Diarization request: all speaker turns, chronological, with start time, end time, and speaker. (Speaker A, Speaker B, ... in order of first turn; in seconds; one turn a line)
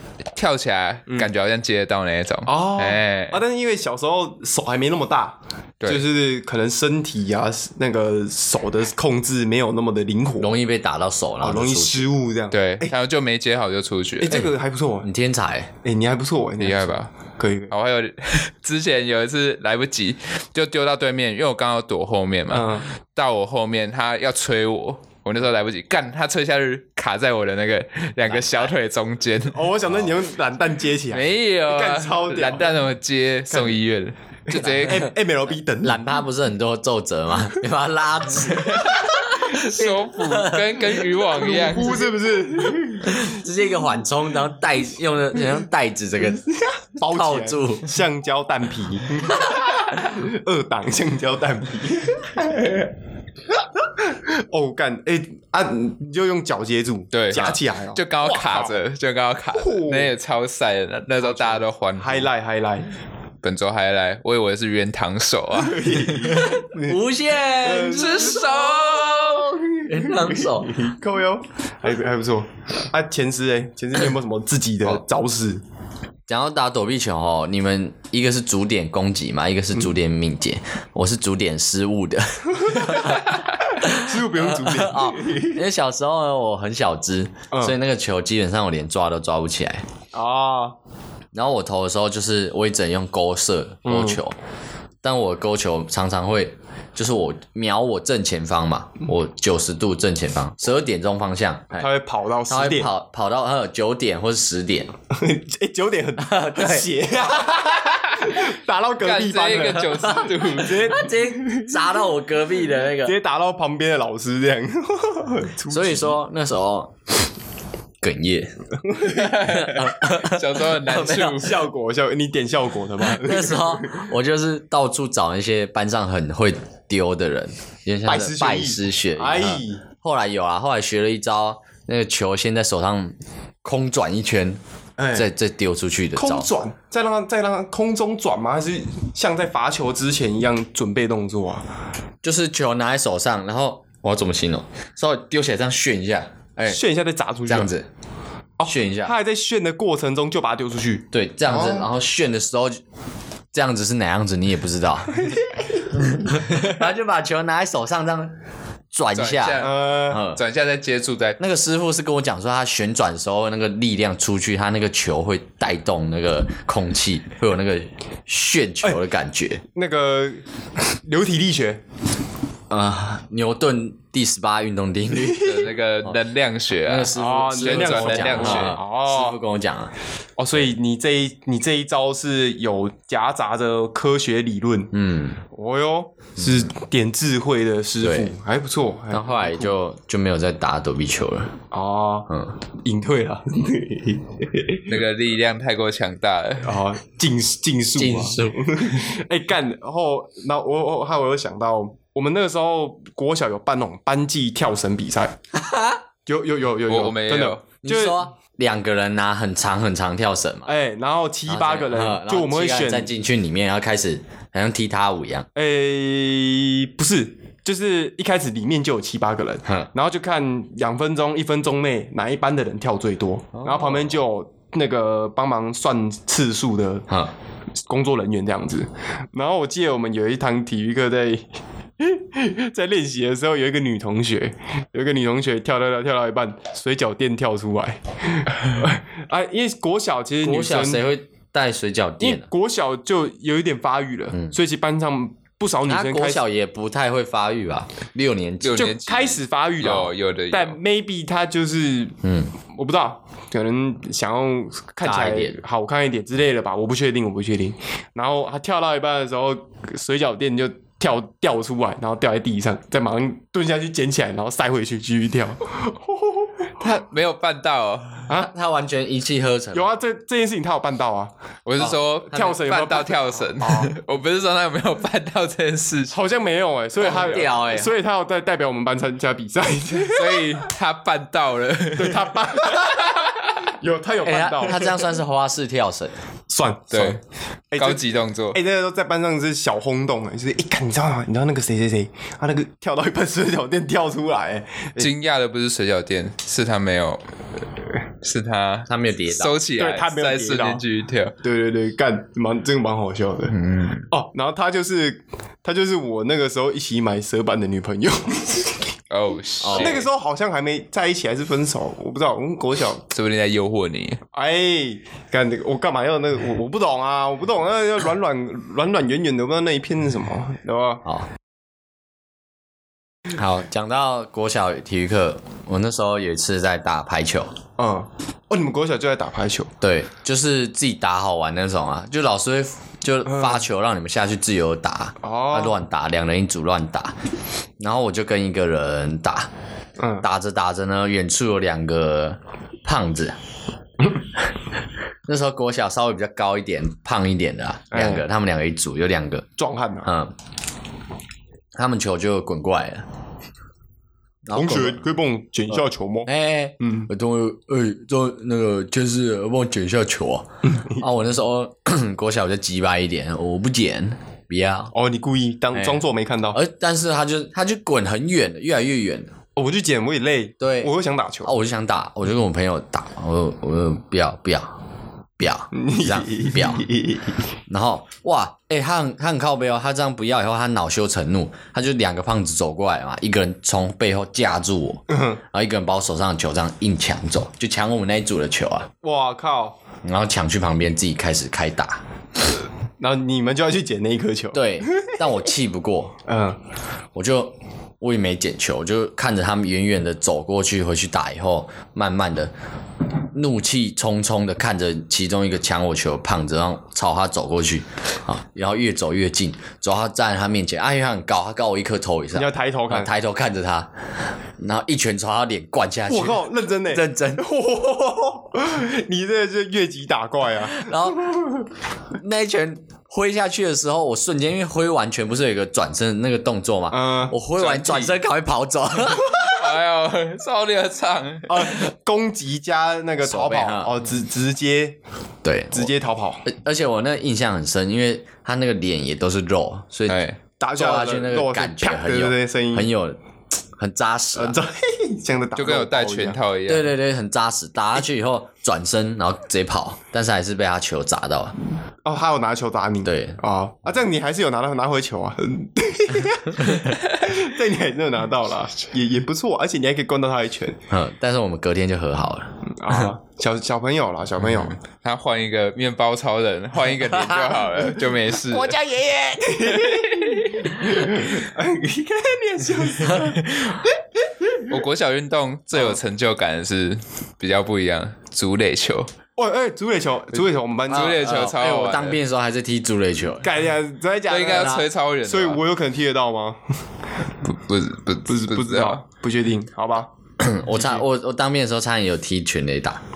Speaker A: 0.4-3.4
Speaker B: 2.5-10.6
Speaker C: 10.4-12.1
Speaker B: 11.4-12.9
Speaker A: 12.5-14.5
Speaker B: 14.2-15.1
Speaker C: 15.0-15.7
Speaker B: 15.8-17.7
Speaker A: 16.6-17.1
Speaker A: 17.7-29.7
Speaker B: 22.5-22.9
Speaker C: 28.2-28.7
Speaker B: 29.5-32.7
Speaker A: 31.1-35.1
Speaker B: 33.5-33.8
Speaker B: 34.5-36.0
Speaker C: 34.6-35.0
Speaker C: 35.8-41.0
Speaker A: 38.6-42.1
Speaker B: 41.3-43.4
Speaker C: 43.0-46.5
Speaker B: 46.5-52.9
Speaker C: 47.0-47.9
Speaker B: 53.5-58.8
Speaker A: 57.1-62.3
Speaker B: 59.5-60.1
Speaker B: 61.2-62.9
Speaker A: 63.4-66.5
Speaker B: 65.5-75.6
Speaker C: 66.4-68.5
Speaker A: 67.8-69.6
Speaker C: 69.8-70.8
Speaker C: 76.3-89.8
Speaker B: 82.7-83.1
Speaker B: 83.8-85.6
Speaker B: 90.1-90.8
Speaker C: 91.3-94.4
Speaker B: 93.8-94.2
Speaker C: 95.0-101.9
Speaker B: 101.8-102.9
Speaker C: 102.5-104.9
Speaker B: 105.1-112.0
Speaker C: 106.2-106.9
Speaker A: 109.0-111.0
Speaker C: 110.0-110.3
Speaker C: 110.9-113.1
Speaker B: 113.0-116.2
Speaker C: 115.7-117.0
Speaker C: 118.0-118.6
Speaker B: 118.8-119.6
Speaker A: 119.1-121.6
Speaker C: 119.4-121.4
Speaker B: 121.2-124.1
Speaker C: 123.0-134.6
Speaker B: 128.1-129.8
Speaker B: 135.0-135.3
Speaker C: 135.1-136.5
Speaker B: 136.1-141.7
Speaker C: 142.2-146.8
Speaker B: 146.7-147.7
Speaker C: 147.5-147.9
Speaker B: 148.6-151.9
Speaker C: 148.7-149.1
Speaker C: 151.1-152.8
Speaker C: 153.5-155.2
Speaker B: 155.1-156.4
Speaker C: 156.0-158.3
Speaker C: 158.9-160.4
Speaker A: 159.1-161.4
Speaker B: 159.6-160.2
Speaker C: 161.4-169.6
Speaker B: 169.7-171.8
Speaker C: 172.7-175.5
Speaker B: 175.1-175.7
Speaker A: 175.3-178.8
Speaker C: 176.8-179.9
Speaker B: 177.2-179.4
Speaker B: 180.4-184.9
Speaker C: 184.9-185.4
Speaker B: 185.5-189.8
Speaker C: 188.0-188.3
Speaker C: 189.1-191.6
Speaker B: 191.7-192.3
Speaker B: 192.8-195.0
Speaker A: 194.9-196.8
Speaker B: 196.6-205.4
Speaker C: 198.0-199.0
Speaker C: 205.5-206.0
Speaker B: 206.2-208.2
Speaker A: 206.9-207.6
Speaker C: 207.8-210.7
Speaker B: 210.7-213.1
Speaker C: 211.5-215.5
Speaker B: 215.6-227.1
Speaker C: 219.6-219.9
Speaker C: 223.6-224.0
Speaker B: 227.9-231.5
Speaker B: 232.0-241.1
Speaker C: 240.4-242.5
Speaker B: 242.2-246.4
Speaker C: 245.9-248.9
Speaker A: 248.6-250.8
Speaker B: 248.8-266.9
Speaker C: 252.2-252.5
Speaker C: 255.0-255.6
Speaker A: 266.8-268.4
Speaker C: 268.4-269.9
Speaker B: 269.7-271.3
Speaker A: 271.6-276.2
Speaker B: 272.3-273.9
Speaker B: 276.1-280.6
Speaker C: 277.0-277.9
Speaker A: 277.1-277.4
Speaker A: 280.1-283.6
Speaker B: 282.0-285.1
Speaker C: 284.2-286.1
Speaker B: 286.5-287.2
Speaker A: 286.9-287.2
Speaker B: 287.7-295.1
Speaker A: 287.8-288.6
Speaker A: 295.0-297.2
Speaker A: 298.2-301.3
Speaker C: 298.9-299.6
Speaker B: 299.8-300.8
Speaker B: 301.4-303.6
Speaker A: 303.5-304.1
Speaker B: 304.1-308.9
Speaker A: 309.1-310.1
Speaker C: 309.6-310.0
Speaker B: 309.8-313.0
Speaker A: 313.1-314.2
Speaker B: 314.3-321.0
Speaker C: 323.3-327.5
Speaker B: 327.8-329.7
Speaker C: 329.8-337.2
Speaker B: 333.2-333.6
Speaker B: 335.2-335.8
Speaker C: 337.8-339.5
Speaker B: 340.0-340.2
Speaker C: 340.2-343.4
Speaker C: 345.2-349.5
Speaker B: 347.9-348.2
Speaker B: 349.6-350.1
Speaker C: 350.0-350.3
Speaker C: 351.8-353.0
Speaker C: 354.5-355.0
Speaker B: 354.5-356.3
Speaker C: 356.2-364.9
Speaker B: 356.8-357.1
Speaker B: 360.7-361.0
Speaker B: 364.9-366.6
Speaker C: 365.7-369.3
Speaker B: 369.6-371.5
Speaker C: 370.6-370.9
Speaker C: 371.4-374.8
Speaker C: 375.4-376.9
Speaker B: 375.7-377.3
Speaker C: 377.7-388.9
Speaker B: 385.1-385.4
Speaker B: 389.0-389.8
Speaker C: 390.0-392.0
Speaker B: 393.0-395.1
Speaker C: 394.5-396.2
Speaker B: 396.2-396.6
Speaker C: 397.1-402.5
Speaker C: 403.3-413.9
Speaker B: 412.3-413.1
Speaker C: 414.6-417.4
Speaker B: 416.1-421.7
Speaker C: 420.7-421.3
Speaker C: 422.1-429.6
Speaker B: 426.9-427.4
Speaker A: 427.6-428.1
Speaker A: 429.4-431.8
Speaker B: 431.5-435.0
Speaker C: 433.2-433.9
Speaker C: 435.4-435.9
Speaker B: 435.7-436.4
Speaker C: 436.4-440.2
Speaker A: 440.1-440.4
Speaker B: 440.6-442.9
Speaker C: 440.8-443.2
Speaker C: 443.8-444.6
Speaker B: 444.3-446.4
Speaker A: 445.6-446.9
Speaker C: 446.7-451.6
Speaker B: 452.0-460.8
Speaker C: 453.0-453.4
Speaker C: 460.9-462.5
Speaker B: 462.8-464.8
Speaker A: 464.9-468.8
Speaker C: 467.1-467.6
Speaker B: 468.5-474.8
Speaker A: 469.7-470.7
Speaker A: 474.7-479.1
Speaker B: 479.4-481.2
Speaker C: 480.9-483.5
Speaker A: 480.9-482.2
Speaker B: 483.4-486.6
Speaker A: 484.3-485.6
Speaker C: 484.5-484.8
Speaker A: 487.4-489.0
Speaker B: 488.3-490.1
Speaker C: 490.4-493.0
Speaker B: 490.7-491.0